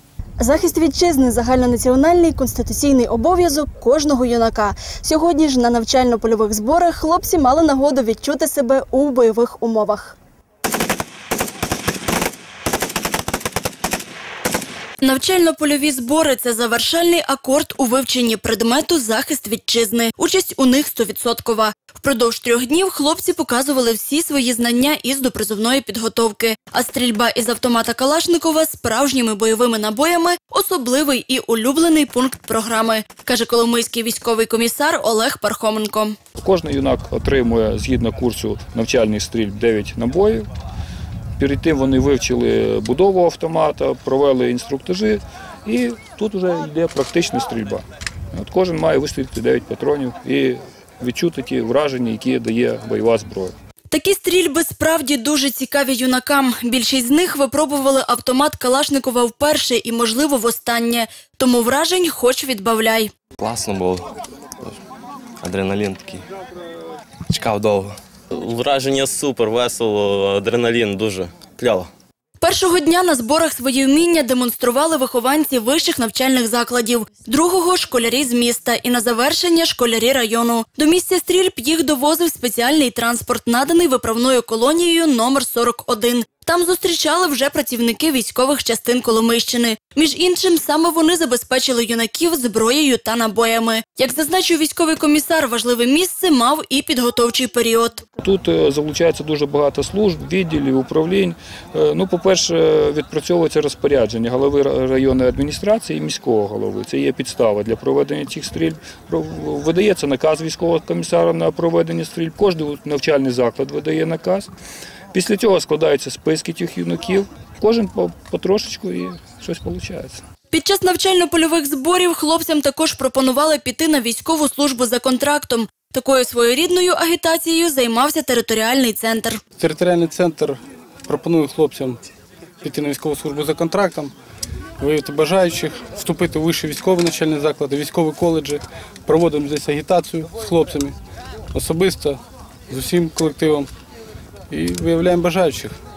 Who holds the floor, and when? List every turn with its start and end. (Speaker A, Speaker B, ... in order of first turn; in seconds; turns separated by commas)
Speaker A: 0.4-10.2, Speaker B: 15.0-36.1, Speaker C: 36.4-40.5, Speaker C: 41.4-53.5, Speaker B: 53.9-63.1, Speaker D: 63.4-64.1, Speaker D: 65.4-66.2, Speaker D: 67.3-68.0, Speaker E: 68.3-71.9, Speaker B: 72.4-98.0, Speaker C: 98.2-114.5, Speaker C: 115.1-120.2, Speaker B: 120.5-129.4, Speaker F: 129.6-132.0, Speaker F: 132.6-134.1, Speaker F: 134.8-140.9, Speaker F: 141.5-143.7, Speaker F: 144.5-145.8